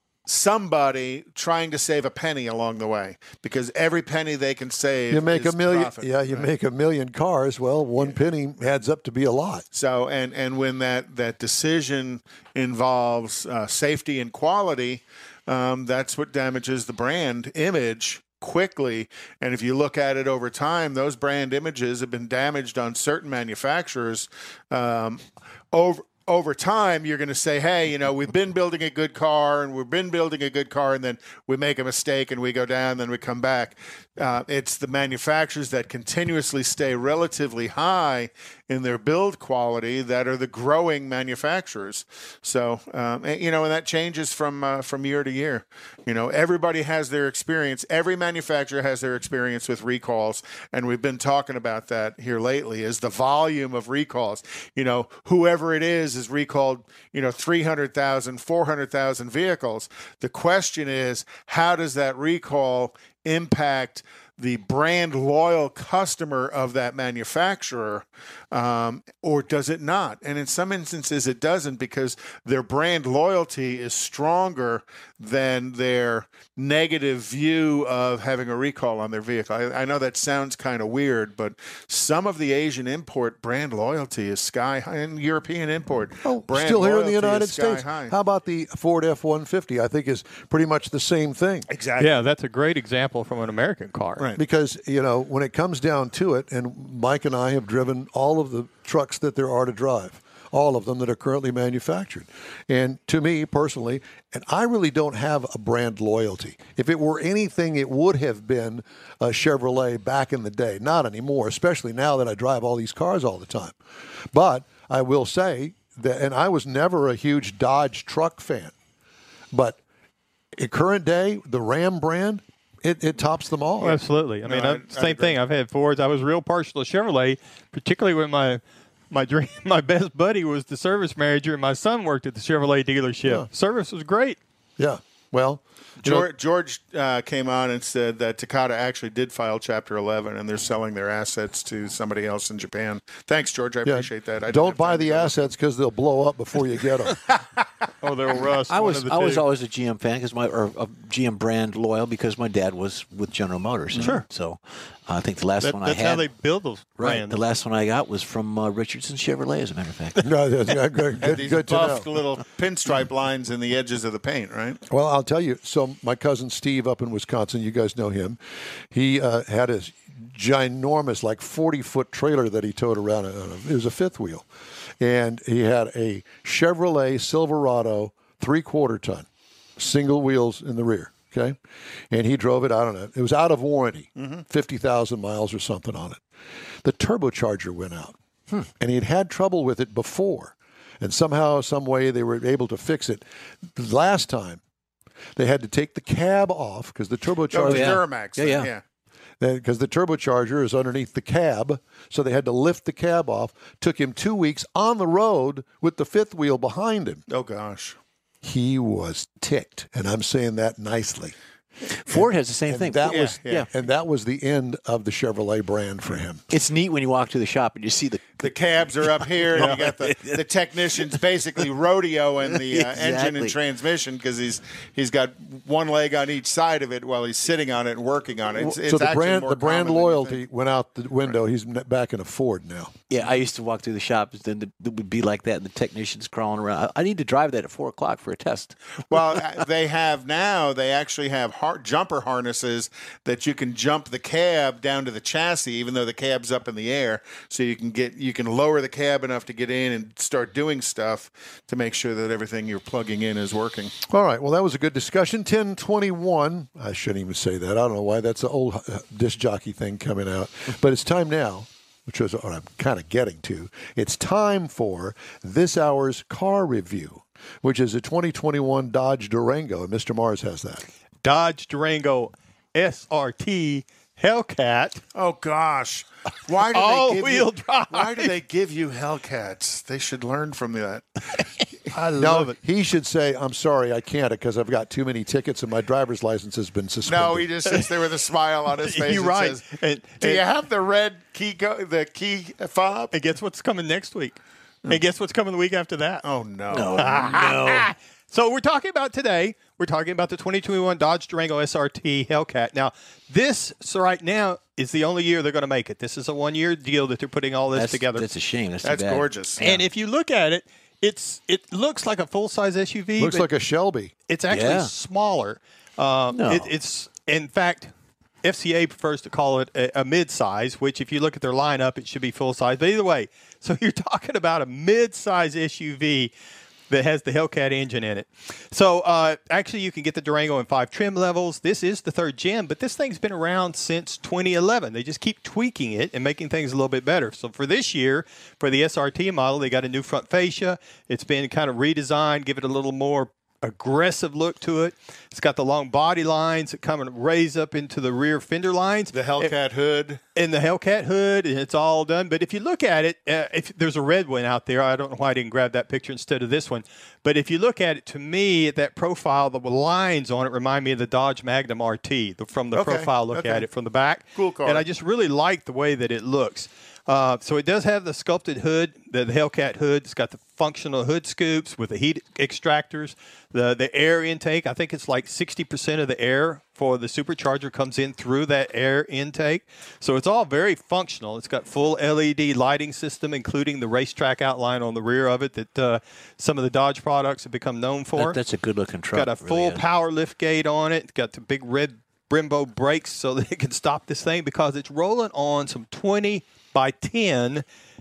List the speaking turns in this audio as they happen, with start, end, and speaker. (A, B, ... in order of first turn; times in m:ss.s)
0:00.2-0:06.5 A
0:05.1-0:09.6 B
0:09.7-0:25.2 A
0:25.7-1:28.1 A
1:26.2-1:31.6 B
1:31.7-1:32.2 A
1:32.0-1:34.2 C
1:34.4-1:53.8 B
1:54.3-1:58.7 B
1:59.5-1:59.8 B
2:00.6-2:04.0 B
2:03.8-2:14.4 C
2:03.8-2:05.4 A
2:14.8-2:16.2 B
2:16.0-2:25.5 A
2:23.8-2:27.2 B
2:28.0-2:29.4 C
2:28.7-2:36.2 D
2:34.0-2:34.2 C
2:35.6-2:37.4 C
2:37.0-2:40.3 D
2:40.2-2:42.0 B
2:41.2-2:44.8 A
2:44.9-2:48.4 B
2:48.9-2:54.4 B
2:55.0-2:59.2 B
2:59.8-3:01.6 B
3:02.1-3:06.2 B
3:04.2-3:04.4 A
3:06.8-3:08.2 B
3:08.8-3:13.2 B
3:13.7-3:14.6 B
3:15.4-3:17.9 B
3:17.5-3:18.8 A
3:17.6-3:18.7 D
3:19.4-3:27.2 B
3:27.3-3:28.0 A
3:28.4-3:31.3 B
3:31.9-3:33.7 D
3:32.1-3:36.4 B
3:33.1-3:33.7 A
3:36.5-3:40.4 D
3:38.4-3:50.4 A
3:42.5-3:43.6 D
3:48.6-3:52.9 B
3:53.1-3:58.8 D
3:59.1-4:13.9 A
4:14.1-4:30.8 B
4:31.2-4:35.0 C
4:35.1-4:41.5 A
4:36.7-4:38.3 C
4:41.9-4:42.5 C
4:42.1-4:47.4 B
4:47.0-4:49.6 A
4:47.6-4:47.9 C
4:48.8-4:50.4 C
4:50.2-4:53.1 A
4:53.1-4:56.2 C
4:56.2-4:57.5 A
4:56.7-4:57.9 D
4:57.0-5:08.2 C
5:07.7-5:09.8 D
5:08.8-5:09.6 A
5:09.6-5:13.5 C
5:13.2-5:14.1 B
5:14.3-5:26.3 C
5:14.5-5:14.9 D
5:16.3-5:16.7 D
5:26.9-5:49.5 C
5:49.1-5:50.2 A
5:50.4-6:28.4 C
6:02.7-6:03.6 A
6:04.4-6:04.8 A
6:28.1-6:29.8 D
6:29.1-6:37.6 C